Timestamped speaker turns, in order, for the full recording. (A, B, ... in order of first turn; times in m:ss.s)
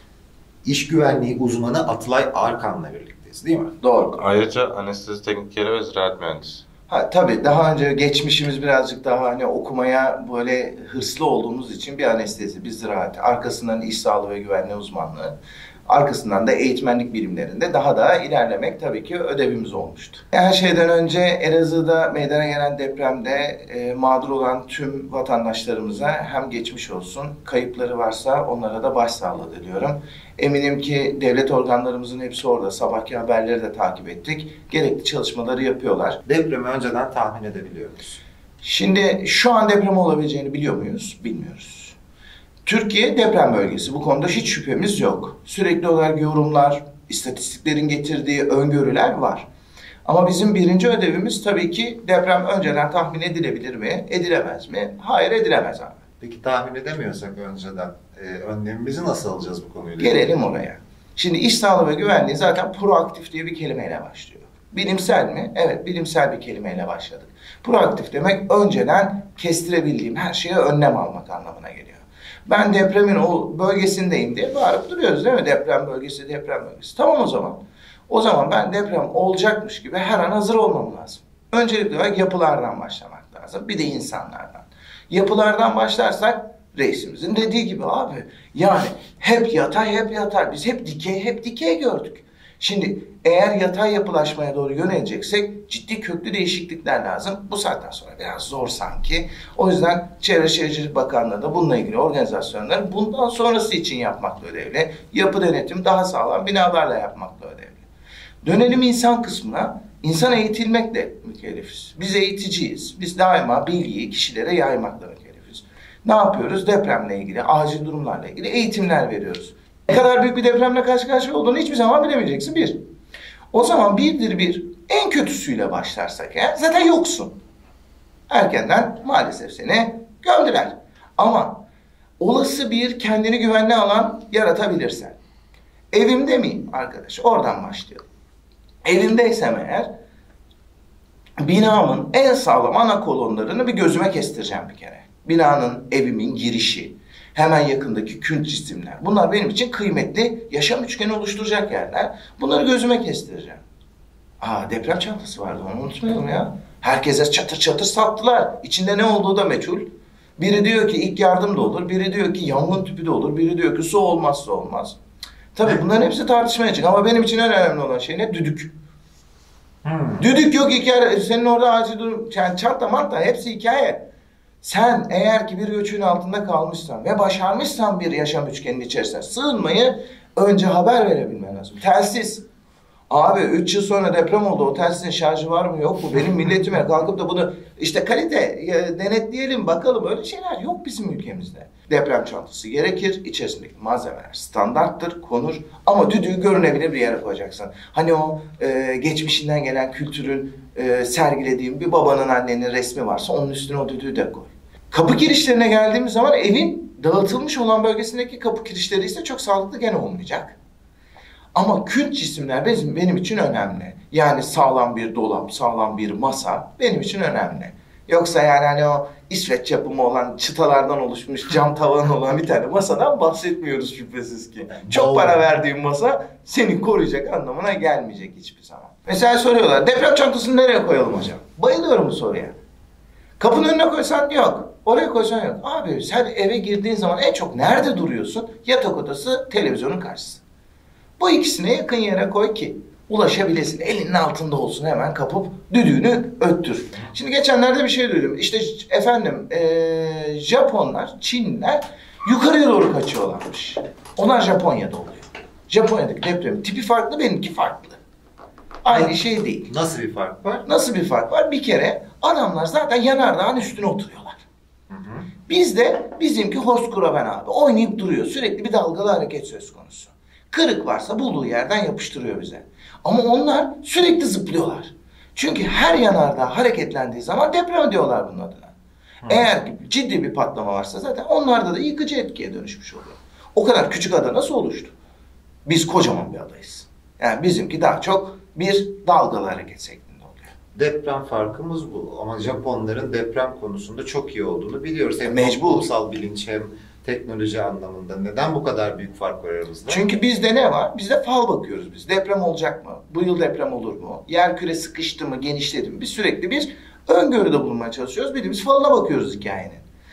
0:00.6-0:03.7 A
0:03.8-0:04.2 B
0:04.2-0:06.6 C
0:06.9-0:15.4 B
0:15.9-0:36.2 B
0:36.2-0:38.2 A
0:38.6-0:42.0 B
0:42.6-0:49.5 B
0:50.0-0:56.0 B
0:56.2-1:00.2 A
1:00.0-1:47.8 B
1:48.4-2:02.8 B
2:03.5-2:07.3 B
2:08.3-2:11.6 B
2:12.2-2:15.2 B
2:15.9-2:18.0 B
2:18.8-2:19.9 B
2:21.4-2:33.6 B
2:34.4-2:39.8 B
2:40.4-2:45.0 B
2:45.5-2:48.7 B
2:49.8-2:50.3 A
2:50.2-2:54.0 B
2:54.6-3:02.4 B
3:03.1-3:30.6 B
3:31.5-3:52.5 B
3:44.8-3:45.4 A
3:53.4-4:00.4 B
4:01.2-4:18.0 B
4:18.8-4:19.7 B
4:18.9-4:19.2 A
4:19.7-4:20.6 A
4:20.6-4:24.4 B
4:24.9-4:25.2 A
4:25.5-4:38.7 B
4:39.2-4:44.9 B
4:45.6-4:50.5 B
4:50.7-5:00.1 A
4:55.2-4:55.9 B
4:59.9-5:09.8 B